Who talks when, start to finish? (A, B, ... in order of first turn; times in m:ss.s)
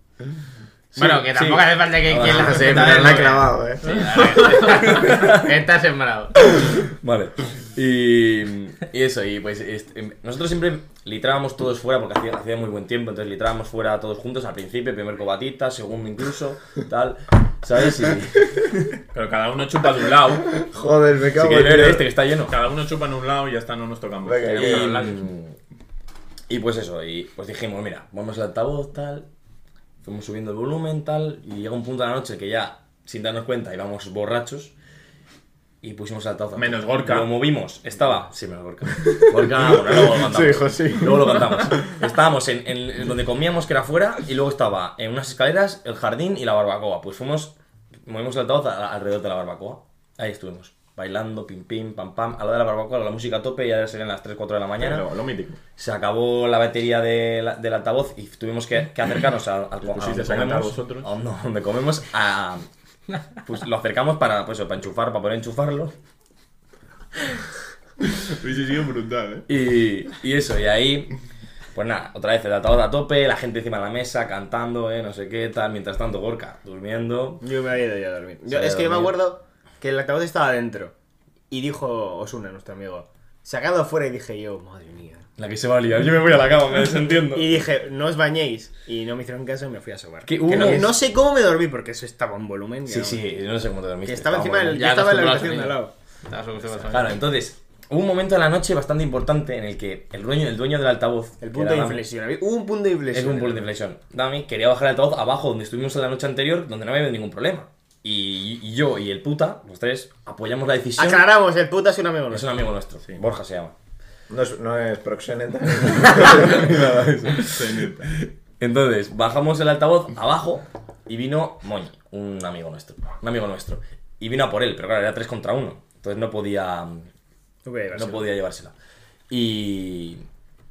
0:00.9-0:03.2 A
0:01.0-0:06.4 B
0:02.1-0:04.3 C
0:04.6-0:05.5 A
0:06.6-0:19.0 A
0:19.1-0:20.6 D
0:20.6-0:22.1 C
0:21.4-0:22.6 A
0:22.5-0:25.1 D
0:24.2-0:25.0 C
0:24.5-0:25.2 B
0:24.5-0:25.6 A
0:26.5-0:29.3 A
0:30.0-0:34.7 A
0:35.8-0:47.6 A
0:36.6-0:37.3 D
0:39.4-0:41.9 C
0:48.1-0:55.1 A
0:54.8-0:55.6 D
0:55.8-1:02.7 A
0:59.8-1:01.1 D
1:03.4-1:05.9 A
1:08.2-1:09.4 D
1:09.5-1:11.1 A
1:11.8-1:17.4 A
1:17.4-1:20.9 E
1:18.5-1:19.2 A
1:21.5-1:25.2 E
1:25.4-1:27.6 A
1:27.3-1:33.2 E
1:30.2-1:30.9 A
1:30.5-1:30.8 D
1:32.9-1:34.8 A
1:34.1-1:35.9 E
1:34.7-1:37.2 B
1:36.9-1:42.0 A
1:41.4-1:43.7 E
1:43.1-1:51.3 A
1:51.0-1:52.5 E
1:52.3-1:53.7 A
1:54.3-1:56.7 C
1:55.8-2:07.1 A
1:57.4-1:58.1 D
2:07.6-2:08.3 E
2:07.9-2:08.7 A
2:09.3-2:10.2 A